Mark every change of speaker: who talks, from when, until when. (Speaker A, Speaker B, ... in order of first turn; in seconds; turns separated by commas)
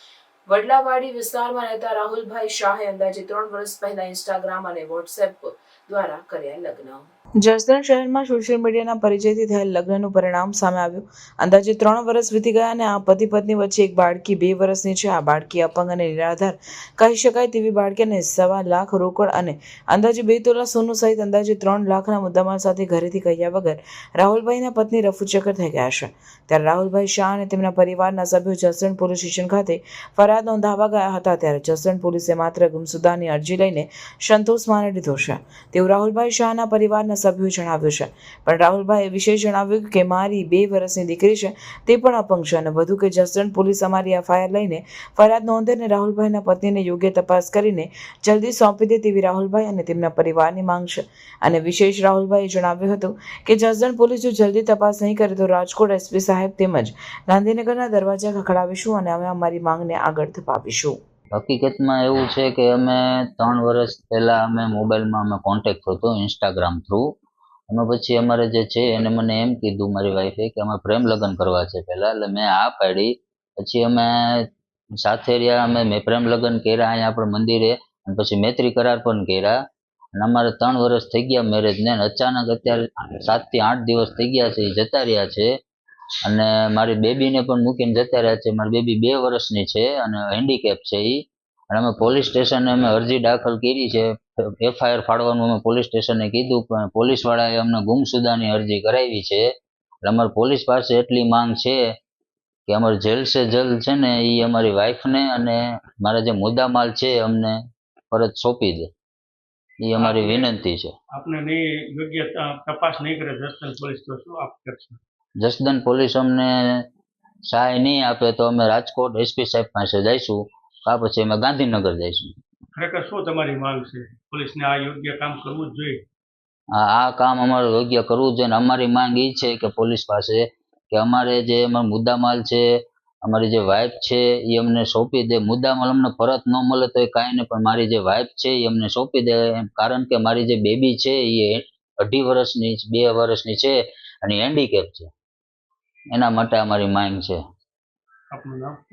Speaker A: 0.5-61.0, Speaker B: 61.3-67.1, Speaker B: 67.7-74.4, Speaker B: 75.0-79.5, Speaker B: 80.2-85.5, Speaker B: 86.2-91.2, Speaker B: 91.7-94.1, Speaker B: 94.6-99.4, Speaker B: 100.0-101.8, Speaker B: 102.7-107.6, Speaker B: 108.1-108.9, Speaker B: 109.8-110.9, Speaker C: 110.0-110.5, Speaker C: 111.1-115.0, Speaker B: 115.4-116.8, Speaker B: 117.5-122.3, Speaker C: 122.8-126.0, Speaker B: 126.7-132.6, Speaker B: 133.2-145.1, Speaker B: 146.1-147.4, Speaker C: 148.3-148.8